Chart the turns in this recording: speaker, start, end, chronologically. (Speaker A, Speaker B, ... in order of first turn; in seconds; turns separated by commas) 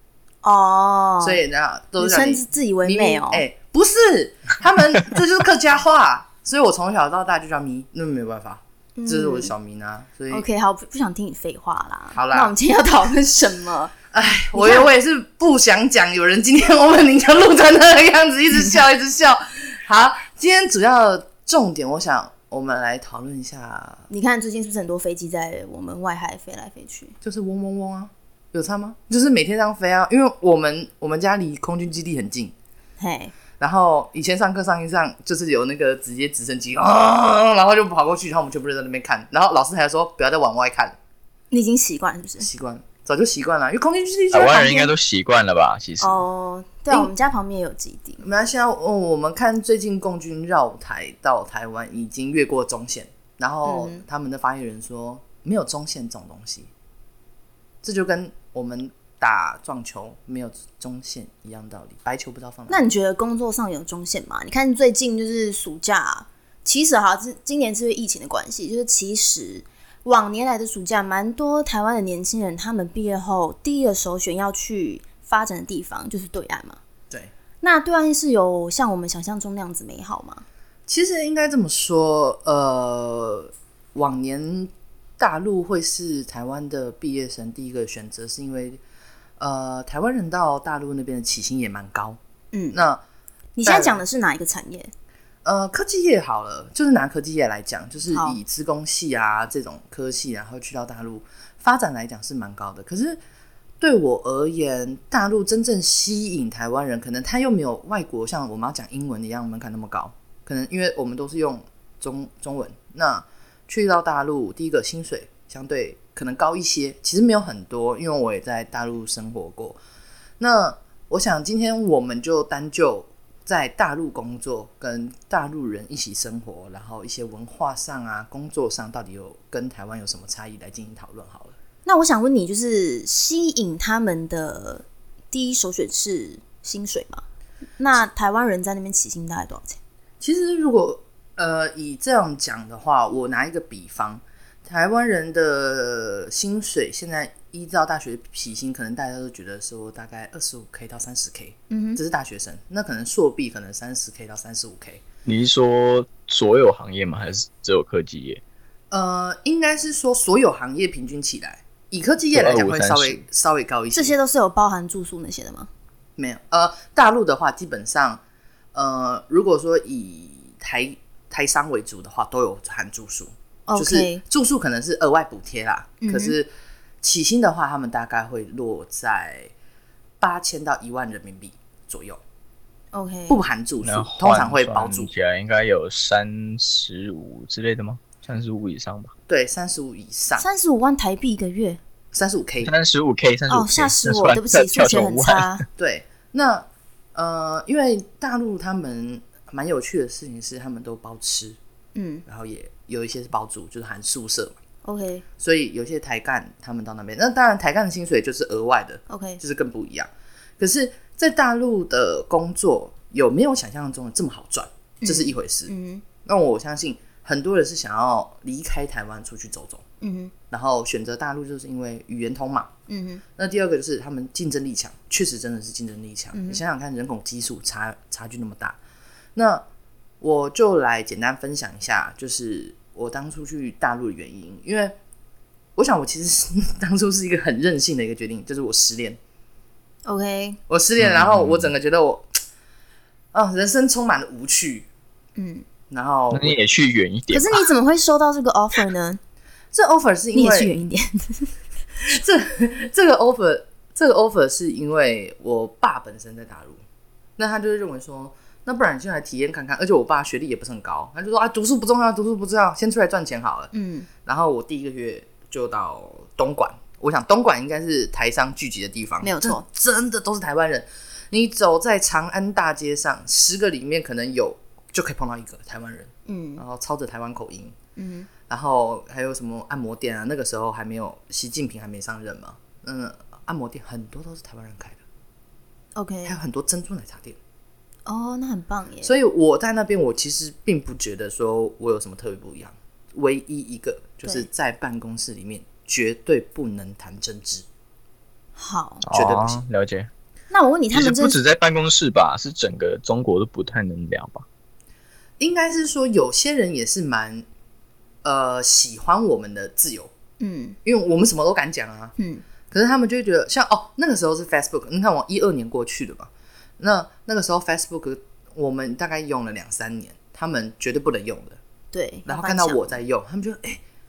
Speaker A: 0.4-1.4, Speaker B: 1.2-10.4, Speaker A: 2.0-3.4, Speaker A: 9.0-9.5, Speaker A: 10.3-13.9, Speaker B: 12.1-12.5, Speaker B: 14.1-24.1, Speaker A: 14.5-14.9, Speaker A: 24.1-27.1, Speaker B: 27.2-32.5, Speaker A: 33.0-33.3, Speaker B: 33.6-41.0, Speaker A: 41.5-42.5, Speaker B: 42.4-44.7, Speaker C: 44.3-46.2, Speaker A: 44.4-44.9, Speaker A: 46.0-48.2, Speaker B: 48.2-56.7, Speaker A: 53.6-54.0, Speaker B: 57.8-62.9, Speaker A: 62.7-76.8, Speaker A: 77.6-80.4, Speaker B: 80.9-88.8, Speaker B: 89.4-92.2, Speaker A: 92.5-92.8, Speaker B: 92.7-93.0, Speaker A: 93.5-94.9, Speaker B: 93.6-94.0, Speaker B: 95.4-103.2, Speaker A: 98.1-98.4, Speaker B: 103.8-119.8, Speaker B: 120.4-131.5, Speaker A: 131.8-137.2, Speaker A: 137.8-139.8, Speaker B: 140.2-155.0, Speaker A: 151.7-152.0, Speaker C: 155.2-158.4, Speaker B: 158.9-164.1, Speaker C: 162.3-163.2, Speaker A: 163.9-165.7, Speaker B: 166.2-168.2, Speaker B: 168.7-176.5, Speaker A: 173.7-174.2, Speaker A: 176.0-176.3, Speaker B: 177.0-179.5, Speaker B: 180.2-182.2, Speaker A: 182.9-183.4, Speaker B: 183.3-185.1, Speaker C: 183.8-189.1, Speaker B: 189.3-190.4, Speaker A: 190.4-191.8, Speaker B: 192.1-192.7, Speaker C: 192.6-195.5, Speaker A: 193.5-195.6, Speaker B: 195.8-201.6, Speaker A: 201.9-202.2, Speaker B: 202.3-204.6, Speaker A: 204.8-205.2, Speaker B: 205.4-210.1, Speaker A: 209.1-209.4, Speaker B: 210.6-215.7, Speaker A: 215.0-216.0, Speaker B: 216.2-219.8, Speaker A: 220.0-220.3, Speaker B: 220.5-222.7, Speaker A: 222.9-223.2, Speaker B: 223.4-228.8, Speaker A: 226.3-226.6, Speaker B: 229.3-229.6, Speaker B: 230.2-234.9, Speaker B: 235.8-239.2, Speaker A: 240.0-240.6, Speaker B: 240.7-242.4, Speaker C: 241.0-241.7, Speaker B: 243.3-244.9, Speaker A: 245.3-245.6, Speaker B: 245.9-246.6, Speaker C: 246.3-247.7, Speaker A: 247.3-249.2, Speaker B: 249.7-250.7, Speaker A: 250.3-251.5, Speaker B: 252.0-256.8, Speaker B: 257.4-263.7, Speaker A: 263.7-264.1, Speaker B: 264.2-277.7, Speaker A: 269.2-269.6, Speaker A: 276.3-276.6, Speaker A: 277.9-278.3, Speaker B: 278.5-285.0, Speaker A: 285.9-286.4, Speaker B: 286.2-287.4, Speaker A: 288.1-289.1, Speaker B: 289.0-297.6, Speaker A: 298.6-299.0, Speaker C: 299.1-300.1, Speaker B: 299.1-299.6, Speaker A: 300.5-301.4, Speaker C: 300.9-304.4, Speaker B: 305.4-307.4, Speaker B: 308.2-310.1, Speaker A: 310.4-310.8, Speaker B: 310.8-312.1, Speaker A: 312.2-312.4, Speaker B: 312.7-321.6, Speaker A: 321.9-323.0, Speaker B: 322.2-323.8